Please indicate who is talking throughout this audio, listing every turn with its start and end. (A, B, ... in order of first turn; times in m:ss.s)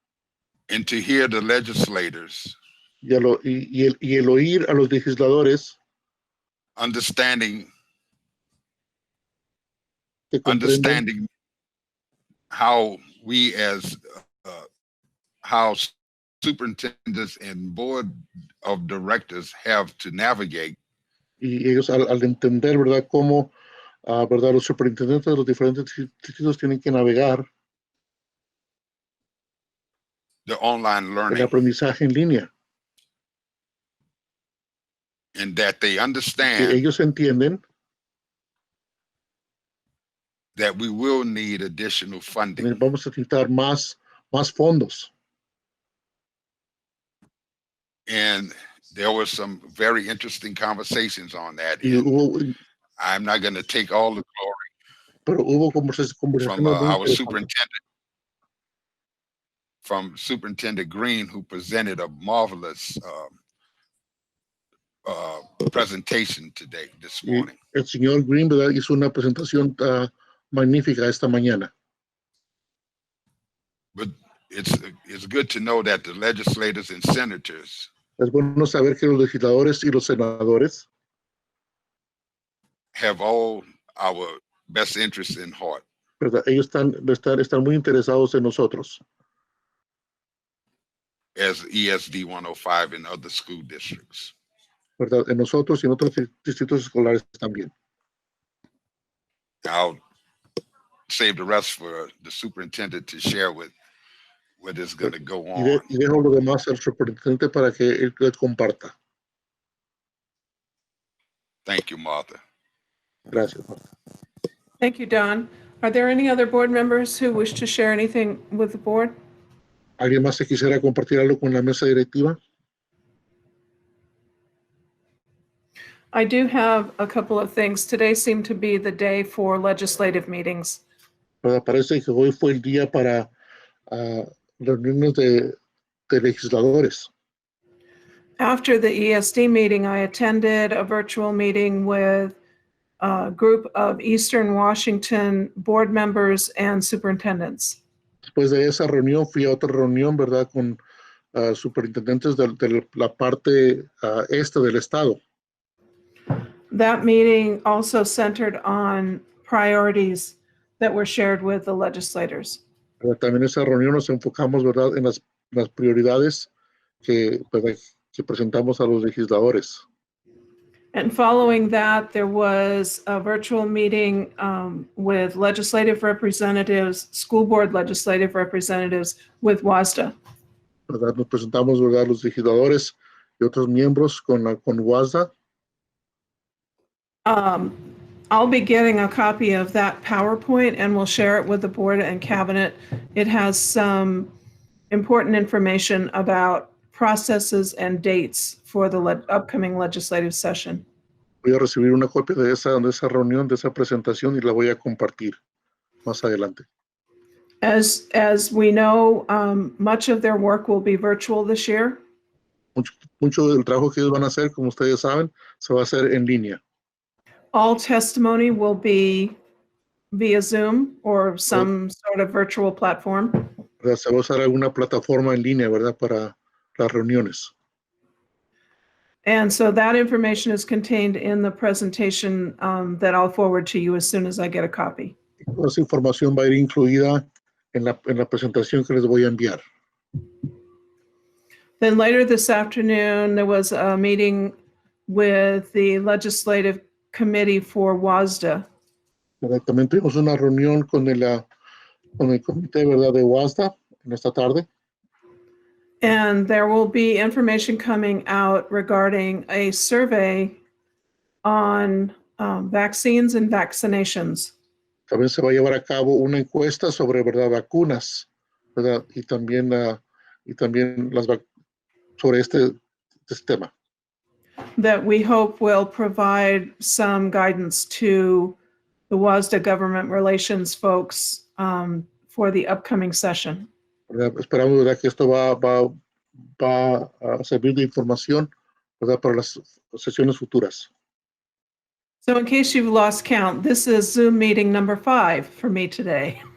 0:00.7-0:02.6 A
0:03.0-0:05.8 B
0:06.8-0:07.7 A
0:10.3-0:11.0 B
0:10.4-0:11.3 A
0:12.5-0:14.6 A
0:15.4-0:18.1 A
0:18.6-0:20.8 A
0:21.4-0:23.5 B
0:24.0-0:27.4 B
0:30.4-0:31.5 A
0:31.3-0:32.5 B
0:35.3-0:36.8 A
0:36.4-0:37.6 B
0:40.6-0:42.7 A
0:42.6-0:45.1 B
0:48.1-0:52.1 A
0:51.8-0:52.5 B
0:53.0-0:54.6 A
0:55.2-0:57.4 B
0:56.4-0:57.8 A
0:59.8-1:03.3 A
1:05.0-1:07.5 A
1:07.2-1:11.7 B
1:13.9-1:17.9 A
1:18.2-1:20.8 B
1:22.9-1:25.8 A
1:26.2-1:29.0 B
1:31.3-1:34.3 A
1:35.0-1:37.7 B
1:39.6-1:40.0 A
1:41.1-1:43.7 A
1:44.6-1:45.8 A
1:45.0-1:48.9 B
1:51.6-1:52.4 A
1:53.3-1:53.8 B
1:54.8-1:59.1 C
2:00.0-2:02.4 B
2:06.1-2:10.8 C
2:11.4-2:13.3 B
2:13.9-2:15.5 B
2:16.1-2:17.1 B
2:18.4-2:22.4 C
2:23.0-2:27.8 C
2:28.3-2:30.8 B
2:31.3-2:35.2 B
2:36.7-2:42.6 C
2:43.0-2:46.5 B
2:47.0-2:49.8 B
2:50.9-3:00.1 C
3:00.9-3:05.3 B
3:07.2-3:07.8 C
3:08.3-3:14.3 C
3:14.9-3:20.8 C
3:21.4-3:25.4 B
3:26.0-3:26.6 B
3:27.6-3:32.0 C
3:32.8-3:36.6 B
3:37.5-3:39.4 C
3:40.1-3:43.5 C
3:43.8-3:47.5 B
3:49.2-3:55.1 C
3:55.5-3:59.6 B
4:01.8-4:04.5 C
4:05.1-4:08.7 C
4:09.4-4:11.4 B
4:12.2-4:14.6 B
4:16.0-4:20.6 C
4:21.4-4:24.5 C
4:25.1-4:31.4 B
4:32.2-4:33.7 B
4:34.8-4:38.6 C
4:39.1-4:43.7 C
4:44.1-4:45.9 B
4:46.6-4:48.5 B
4:49.0-4:50.9 B
4:52.2-4:56.4 C